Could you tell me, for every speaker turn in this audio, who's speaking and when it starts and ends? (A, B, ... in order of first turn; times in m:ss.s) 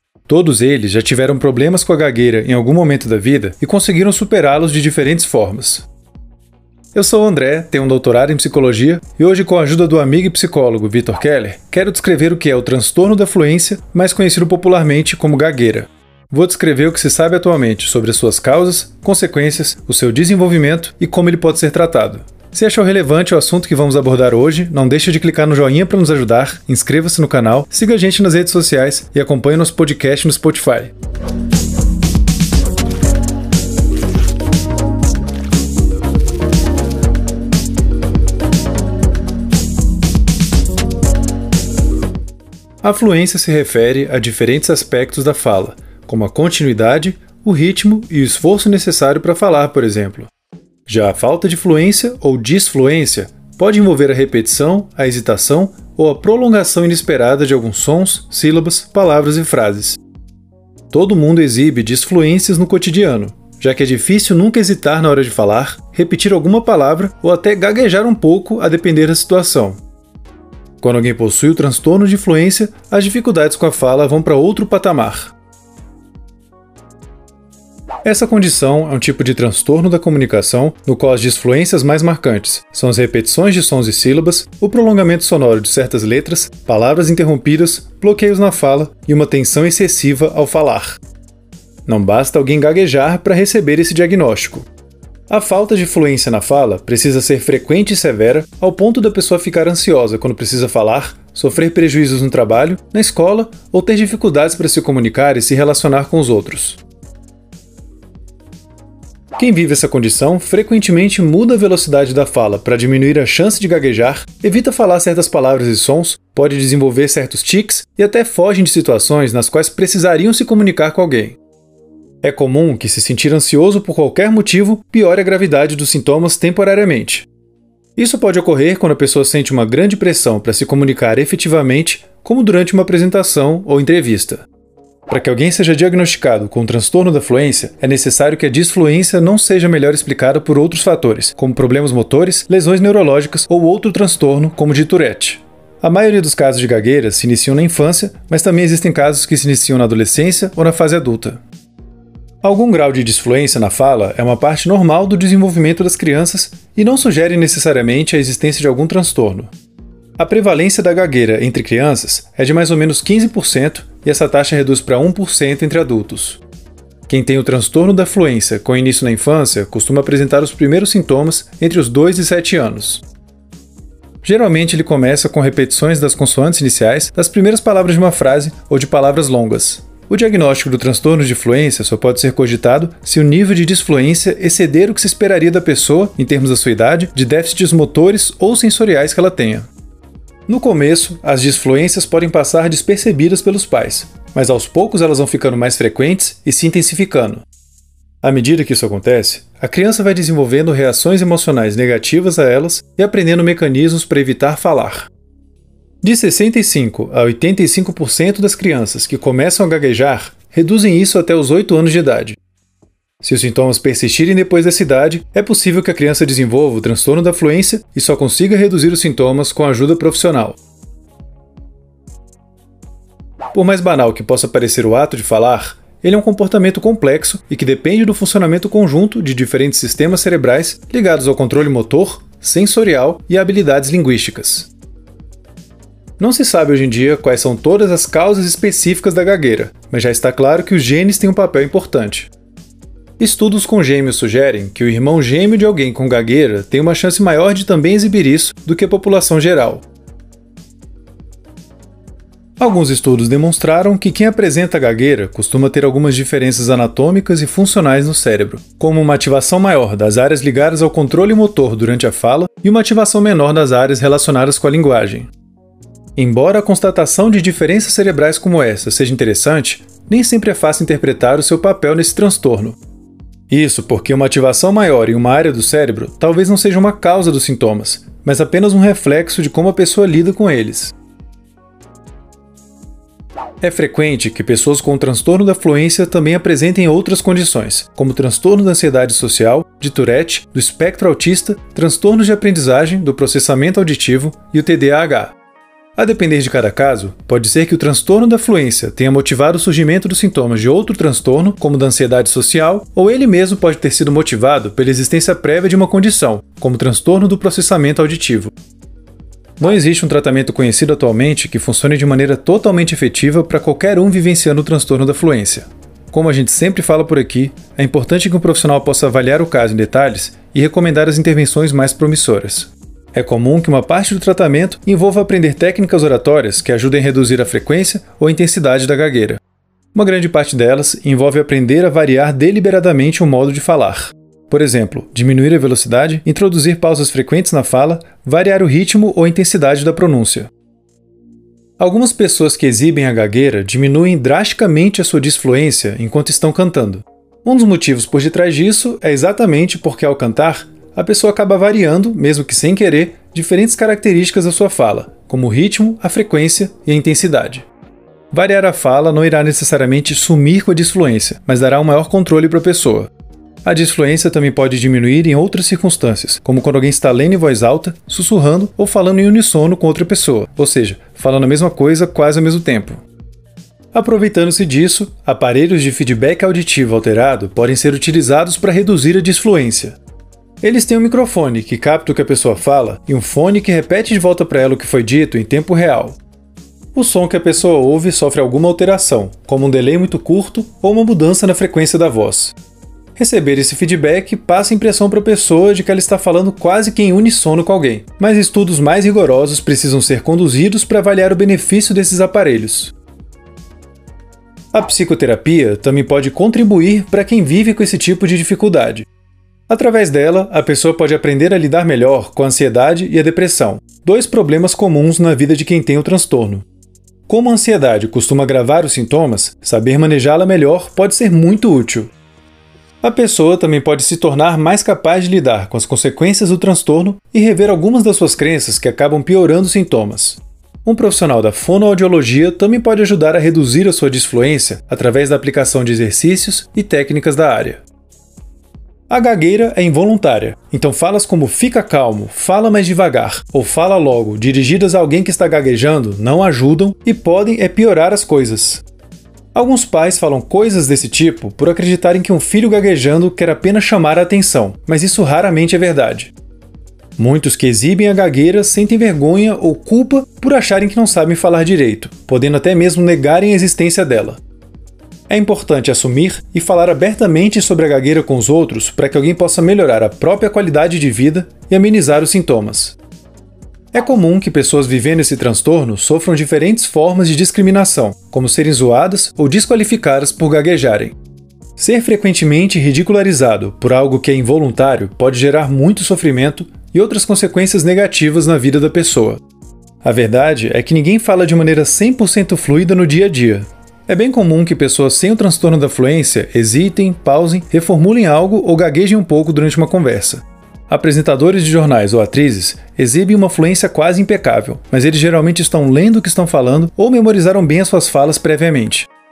0:00.3-0:05.9 A
0:06.9-0:30.9 A
0:42.8-0:50.3 A
0:50.8-1:00.0 A
1:00.9-1:09.8 A
1:10.8-1:15.3 A
1:18.0-1:31.0 A
1:31.8-1:34.7 A
1:35.3-1:46.8 A
1:49.3-2:01.4 A
2:02.2-2:07.3 A
2:08.0-2:14.4 A
2:15.1-2:31.4 A
2:32.4-2:39.5 A
2:40.2-2:46.4 A
2:47.1-2:53.0 A
2:54.2-3:09.7 A
3:10.5-3:17.4 A
3:18.2-3:25.1 A
3:26.0-3:32.4 A
3:33.2-3:40.6 A
3:43.5-3:54.7 A
3:56.2-4:02.3 A
4:03.2-4:09.8 A
4:12.6-4:25.3 A
4:26.2-4:32.8 A
4:33.5-4:40.9 A
4:43.6-4:55.3 A
4:56.0-5:08.5 A
5:09.6-5:29.4 A
5:29.9-5:40.5 A
5:41.8-5:57.7 A
5:58.3-6:03.1 A
6:03.6-6:13.0 A
6:13.9-6:20.0 A
6:20.6-6:26.2 A
6:26.9-6:32.5 A
6:33.2-6:42.9 A
6:44.7-6:49.1 A
6:49.7-6:56.6 A
6:57.3-7:02.1 A
7:03.0-7:17.8 A
7:19.1-7:28.8 A
7:29.5-7:36.3 A
7:37.2-7:44.4 A
7:45.3-7:53.0 A
7:53.9-8:01.1 A
8:01.8-8:09.4 A
8:10.0-8:29.1 A